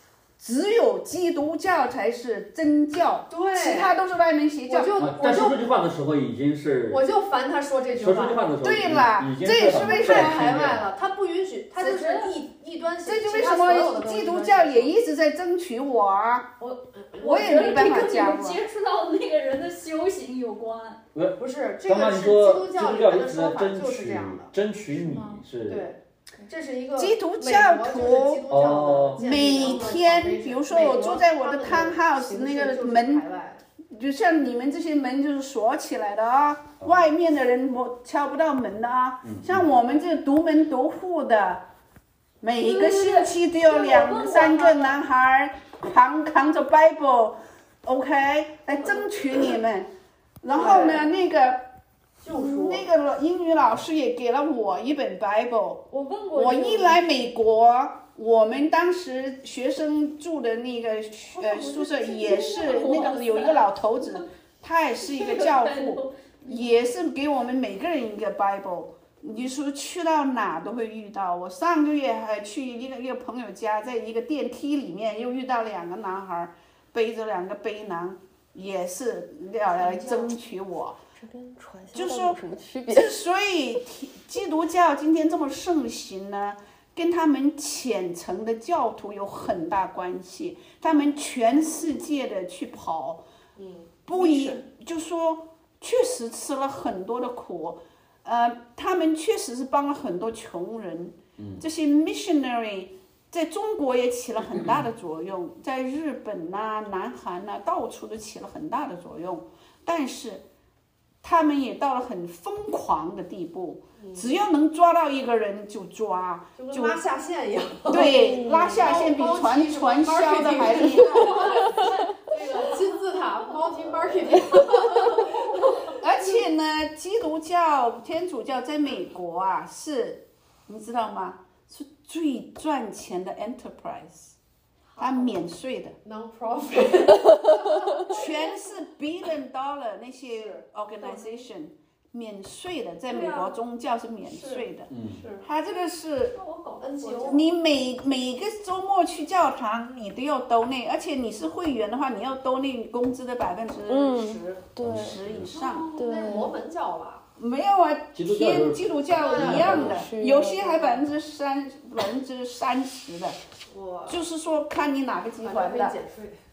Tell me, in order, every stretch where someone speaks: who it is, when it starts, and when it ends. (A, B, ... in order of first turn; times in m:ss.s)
0:00.4-0:04.9 A
0:03.3-0:04.0 B
0:04.7-0:05.6 B
0:05.0-0:07.1 C
0:06.9-0:08.4 B
0:08.0-0:10.9 C
0:08.6-0:10.5 A
0:09.7-0:15.0 B
0:11.8-0:12.4 D
0:13.0-0:16.5 A
0:16.6-0:21.0 D
0:17.2-0:18.6 A
0:21.1-0:25.9 C
0:21.4-0:24.5 B
0:25.0-0:25.4 D
0:25.7-0:33.6 B
0:27.0-0:28.4 A
0:28.5-0:29.9 C
0:29.2-0:33.2 A
0:33.9-0:41.6 A
0:39.2-0:39.7 C
0:42.4-0:49.9 A
0:42.6-0:45.0 D
0:50.4-0:51.7 A
0:50.5-0:51.1 B
0:52.2-0:52.9 B
0:52.3-1:21.0 A
0:55.9-0:57.0 D
1:01.3-1:04.2 D
1:05.0-1:06.9 D
1:19.8-1:20.3 D
1:21.2-1:23.2 E
1:21.9-1:33.2 A
1:33.6-1:34.6 B
1:34.1-1:50.4 A
1:41.4-1:41.6 C
1:51.2-1:57.0 A
1:54.0-1:54.3 B
1:56.6-2:06.0 B
1:57.9-2:01.8 A
1:57.9-1:59.0 E
2:01.5-2:03.7 D
2:03.8-2:04.3 C
2:04.8-2:05.7 D
2:06.0-2:14.4 A
2:14.9-2:15.4 D
2:15.0-2:16.0 A
2:16.0-2:18.2 B
2:18.0-2:26.4 A
2:20.3-2:20.6 B
2:21.0-2:21.4 D
2:23.1-2:23.6 D
2:24.2-2:25.5 B
2:24.9-2:25.3 C
2:26.2-2:27.4 D
2:26.8-2:27.4 B
2:27.2-2:35.9 A
2:33.9-2:35.2 E
2:34.8-2:35.6 C
2:35.4-2:36.4 D
2:36.0-2:36.6 E
2:36.0-2:37.2 B
2:37.4-2:43.4 A
2:38.2-2:40.0 C
2:39.1-2:40.1 B
2:39.7-2:41.0 E
2:43.7-2:44.2 B
2:44.1-2:46.0 A
2:45.4-2:46.4 B